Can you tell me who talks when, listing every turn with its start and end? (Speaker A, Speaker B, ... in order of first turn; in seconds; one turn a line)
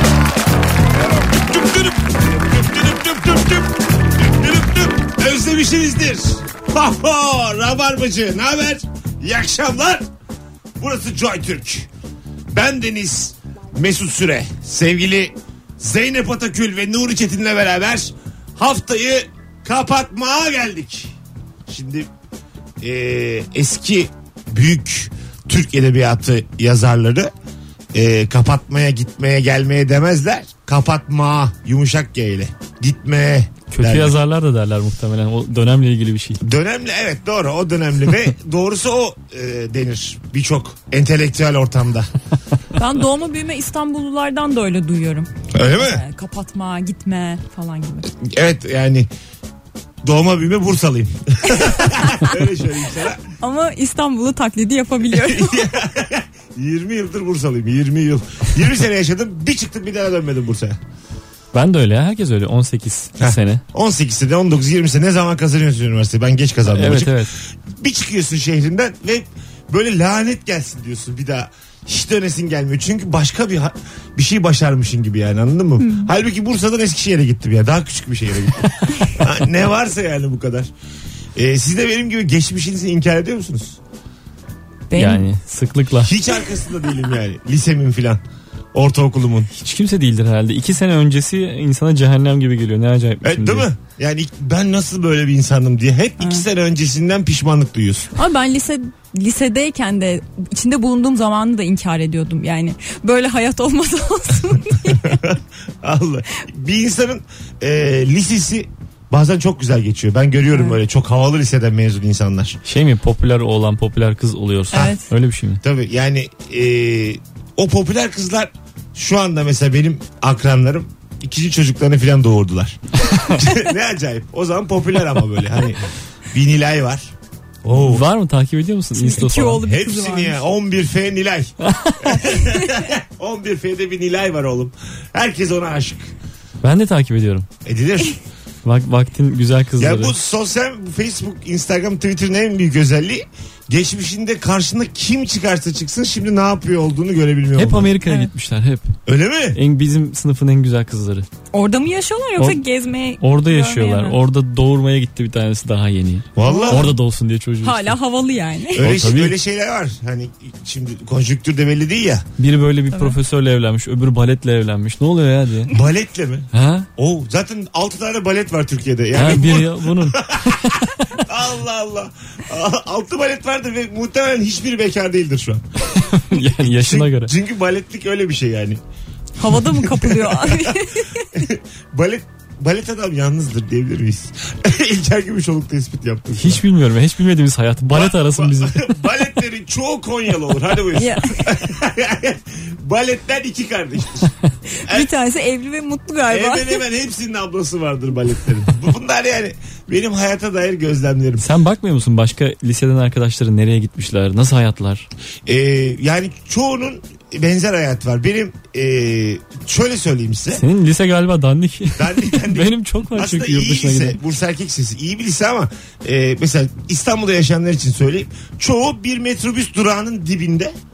Speaker A: 1.3-10.0
Speaker A: 10.8-11.9
Speaker A: 12.5-21.1
Speaker A: 21.7-22.1
Speaker A: 22.8-27.3
Speaker A: 27.9-34.2
Speaker B: 33.7-36.4
Speaker A: 36.4-42.1
Speaker C: 42.8-48.1
Speaker A: 45.5-46.0
Speaker A: 48.1-49.1
Speaker A: 50.0-53.2
Speaker C: 51.6-52.3
Speaker C: 53.4-55.7
Speaker A: 55.1-60.8
Speaker B: 61.5-63.6
Speaker A: 63.2-80.7
Speaker B: 66.7-67.3
Speaker C: 75.8-76.1
Speaker A: 81.4-83.8
Speaker C: 84.9-85.3
Speaker B: 85.0-86.2
Speaker A: 86.0-88.2
Speaker A: 88.7-89.5
Speaker B: 89.6-93.7
Speaker A: 93.2-98.1
Speaker C: 98.2-105.3
Speaker A: 104.8-112.6
Speaker C: 110.5-110.8
Speaker B: 112.7-115.6
Speaker C: 114.7-115.1
Speaker A: 115.6-127.1
Speaker A: 127.6-128.1
Speaker B: 127.7-129.6
Speaker C: 128.9-130.4
Speaker A: 129.6-136.1
Speaker B: 131.6-132.0
Speaker C: 132.3-132.8
Speaker B: 136.6-137.5
Speaker A: 137.6-138.2
Speaker B: 138.7-140.2
Speaker A: 139.8-147.9
Speaker B: 147.6-148.9
Speaker C: 148.1-148.3
Speaker A: 149.1-149.6
Speaker B: 149.6-151.3
Speaker C: 151.5-154.2
Speaker B: 153.2-157.9
Speaker A: 156.3-156.9
Speaker C: 156.4-156.9
Speaker C: 157.6-158.9
Speaker A: 158.8-162.3
Speaker B: 158.8-159.4
Speaker B: 162.4-165.7
Speaker A: 165.7-175.7
Speaker B: 166.5-166.9
Speaker B: 169.1-171.1
Speaker B: 175.9-177.3
Speaker A: 176.6-178.8
Speaker C: 179.4-181.3
Speaker A: 179.7-186.6
Speaker B: 186.3-188.8
Speaker A: 187.8-194.3
Speaker C: 190.9-191.6
Speaker C: 194.8-196.8
Speaker A: 196.3-201.5
Speaker B: 201.4-205.1
Speaker A: 205.5-210.6
Speaker B: 210.6-214.2
Speaker A: 212.0-220.7